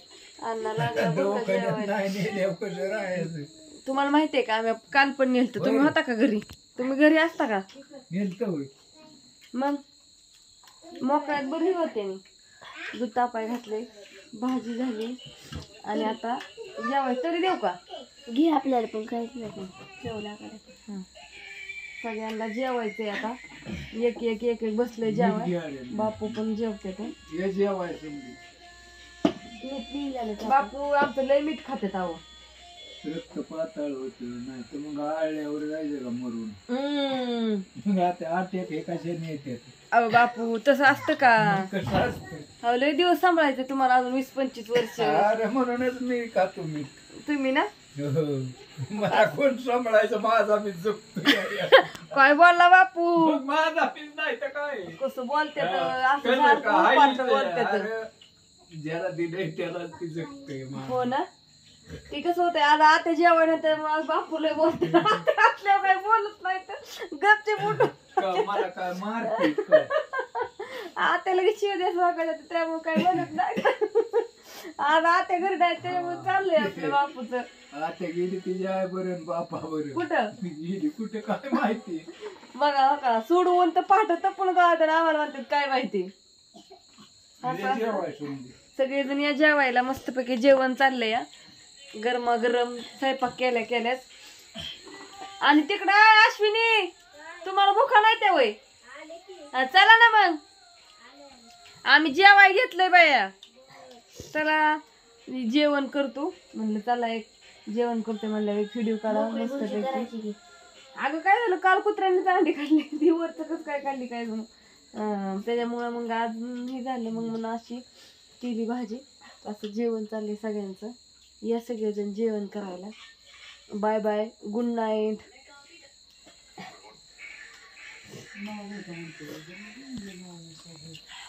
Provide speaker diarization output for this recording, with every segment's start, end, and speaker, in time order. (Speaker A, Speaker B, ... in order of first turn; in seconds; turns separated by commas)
Speaker A: 0.4-2.0, Speaker B: 0.8-3.5, Speaker A: 3.9-7.7, Speaker B: 5.5-6.0, Speaker B: 8.1-8.7, Speaker A: 9.5-9.8, Speaker A: 10.9-12.2, Speaker A: 12.9-15.2, Speaker A: 15.8-17.8, Speaker C: 18.2-20.7, Speaker A: 22.0-23.4, Speaker A: 23.9-27.1, Speaker B: 25.0-26.4, Speaker B: 27.2-28.4, Speaker C: 29.6-30.7, Speaker A: 30.4-32.2, Speaker B: 33.0-36.6, Speaker A: 36.7-37.6, Speaker B: 37.8-39.7, Speaker A: 39.9-41.7, Speaker B: 41.4-42.5, Speaker A: 42.6-45.3, Speaker B: 44.9-46.9, Speaker A: 47.2-47.7, Speaker B: 47.9-52.1, Speaker A: 49.1-49.3, Speaker A: 51.3-53.4, Speaker B: 53.1-55.0, Speaker A: 55.0-57.9, Speaker B: 55.6-58.1, Speaker B: 58.7-61.1, Speaker A: 60.7-61.3, Speaker A: 62.1-68.7, Speaker B: 68.1-69.9, Speaker A: 69.2-77.5, Speaker B: 75.8-77.0, Speaker B: 77.7-82.1, Speaker A: 79.9-80.3, Speaker A: 82.5-86.1, Speaker A: 87.4-88.0, Speaker B: 87.4-88.5, Speaker A: 88.7-91.2, Speaker A: 92.0-94.0, Speaker A: 95.4-96.9, Speaker A: 97.4-98.6, Speaker A: 99.5-100.4, Speaker A: 101.8-103.3, Speaker A: 104.3-110.1, Speaker C: 109.1-110.4, Speaker A: 111.0-117.8, Speaker A: 118.4-122.9, Speaker A: 123.7-125.2, Speaker B: 128.4-130.9